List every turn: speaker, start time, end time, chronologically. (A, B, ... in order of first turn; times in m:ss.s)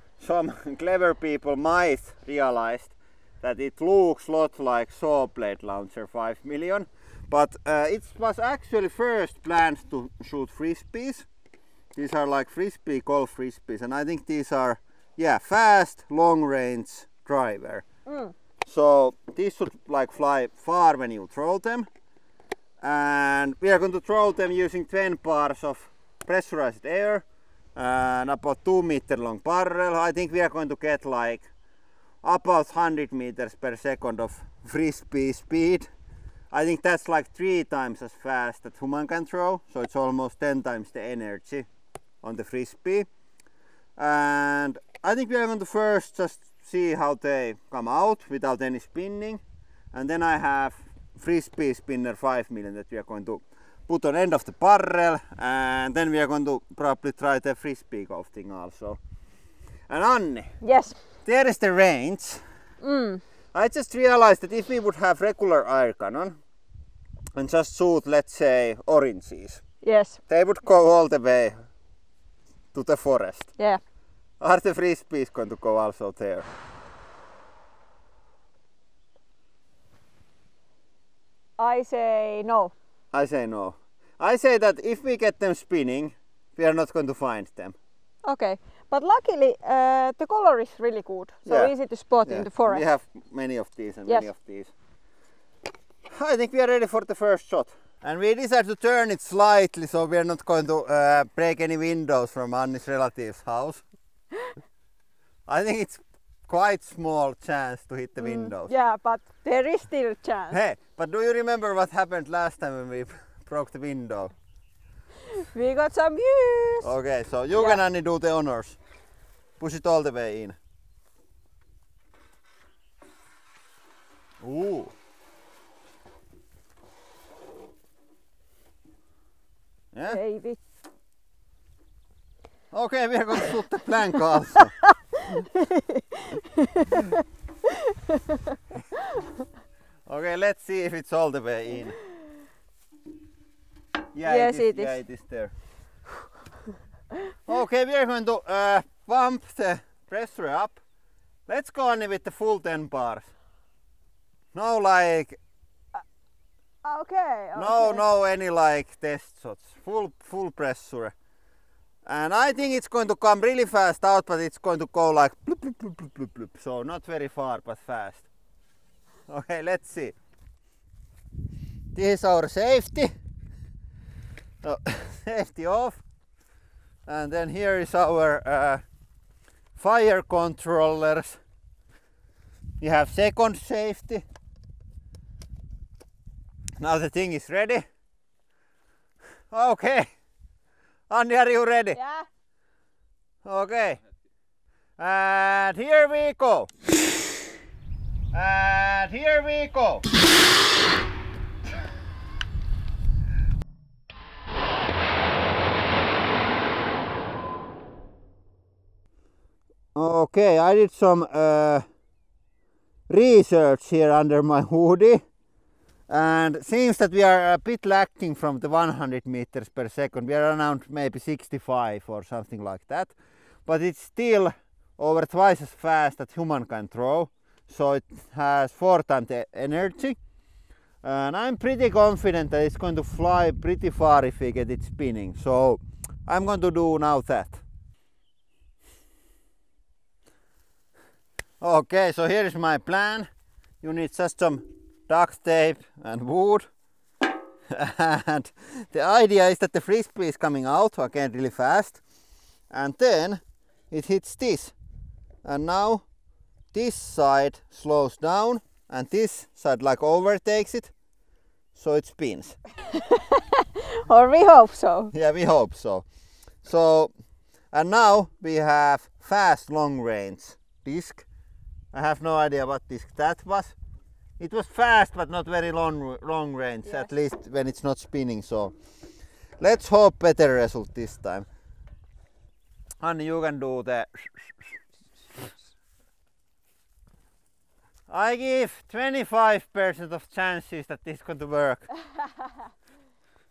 0:00.2-0:11.3 A
0:12.0-0:17.9 A
0:18.1-0:18.3 B
0:18.7-0:21.9 A
0:22.8-0:31.5 A
0:32.2-0:35.9 A
0:36.5-0:41.7 A
0:42.2-0:43.1 A
0:44.0-0:49.4 A
0:49.9-0:59.0 A
0:59.9-1:00.5 A
1:00.6-1:00.9 B
1:01.2-1:02.4 A
1:02.8-1:03.2 B
1:03.5-1:06.4 A
1:07.4-1:09.6 A
1:09.8-1:10.2 B
1:10.3-1:11.6 A
1:12.7-1:13.5 A
1:14.4-1:16.4 A
1:21.6-1:22.7 B
1:23.1-1:27.8 A
1:28.2-1:32.8 B
1:31.5-1:31.7 A
1:32.3-1:34.7 A
1:36.1-1:43.8 A
1:45.5-1:48.7 A
1:48.2-1:50.6 B
1:50.5-1:54.3 A
1:55.4-1:56.9 B
1:56.8-1:58.8 A
1:59.6-2:00.6 A
2:04.4-2:04.9 A
2:09.9-2:10.2 A
2:10.1-2:10.6 B
2:12.7-2:14.8 A
2:14.8-2:19.2 B
2:20.1-2:22.0 A
2:24.1-2:25.5 A
2:24.2-2:24.9 B
2:27.5-2:30.8 A
2:31.5-2:33.3 A
2:34.5-2:35.4 A
2:36.8-2:38.0 B
2:37.6-2:41.1 A
2:42.1-2:48.3 A
2:49.3-2:50.2 A
2:51.9-2:53.1 A
2:54.6-2:56.0 A
2:57.1-2:58.8 A
2:59.8-3:01.4 A
3:02.8-3:04.2 A
3:06.8-3:07.8 A
3:09.5-3:10.1 A
3:11.1-3:12.0 A
3:11.9-3:12.2 B
3:13.4-3:14.0 A
3:15.0-3:16.7 A
3:18.3-3:20.0 A
3:29.9-3:31.8 A
3:33.1-3:35.2 A
3:36.1-3:50.2 A
3:51.0-3:57.6 A
4:01.6-4:03.3 A
4:03.8-4:06.7 A
4:07.7-4:12.0 A
4:12.7-4:14.8 A
4:15.4-4:16.0 A
4:16.7-4:20.9 A
4:21.8-4:22.6 A
4:22.9-4:25.1 B
4:25.1-4:26.0 A
4:26.6-4:27.1 A
4:27.7-4:31.2 A
4:31.9-4:33.8 A
4:34.4-4:38.8 A
4:39.6-4:41.5 A
4:43.0-4:44.5 A
4:48.1-4:51.9 A